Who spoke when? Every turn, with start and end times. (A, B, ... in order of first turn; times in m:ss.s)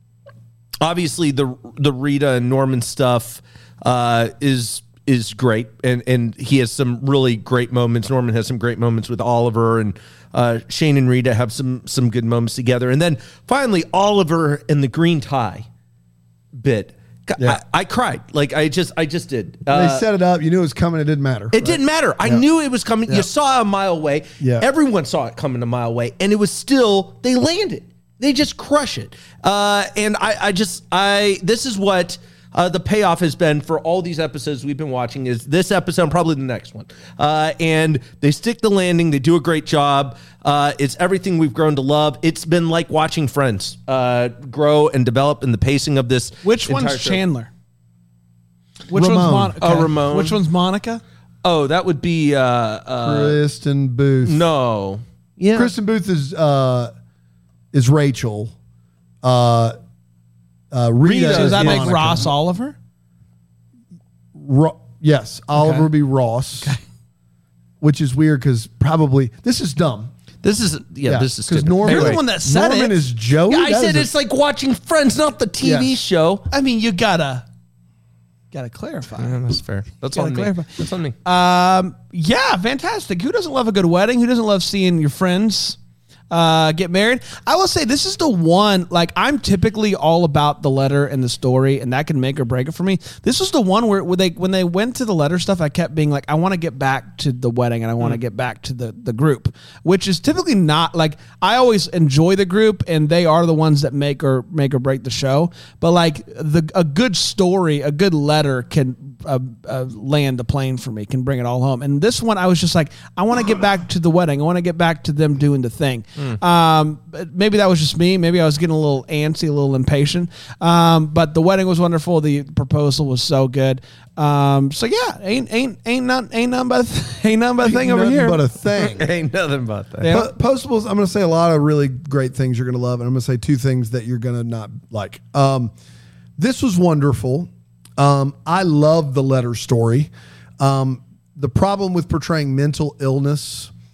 0:00.8-0:15.6 A
0:16.5-0:20.0 A
0:19.7-0:22.4 B
0:21.5-0:47.2 A
0:24.4-0:24.7 B
0:46.4-0:47.5 C
0:48.9-0:51.0 C
0:48.9-0:49.6 B
0:49.6-0:50.4 A
0:51.4-0:53.4 A
0:53.0-0:54.4 B
0:54.2-0:55.7 A
0:55.5-0:56.9 B
0:57.7-0:58.5 B
0:59.2-0:59.7 B
1:00.7-1:02.3 B
1:01.0-1:02.0 A
1:01.3-1:02.8 C
1:04.4-1:06.7 B
1:05.6-1:05.8 C
1:07.8-1:10.1 B
1:10.4-1:12.2 A
1:11.0-1:14.1 B
1:11.8-1:12.9 C
1:13.5-1:16.5 A
1:15.6-1:15.9 B
1:16.5-1:17.4 C
1:18.5-1:19.4 C
1:19.2-1:21.1 A
1:20.1-1:20.7 C
1:21.2-1:25.8 C
1:26.3-2:08.4 C
2:07.6-2:09.1 B
2:08.8-2:10.1 A
2:10.0-2:10.3 C
2:10.1-2:15.7 B
2:16.4-2:23.7 B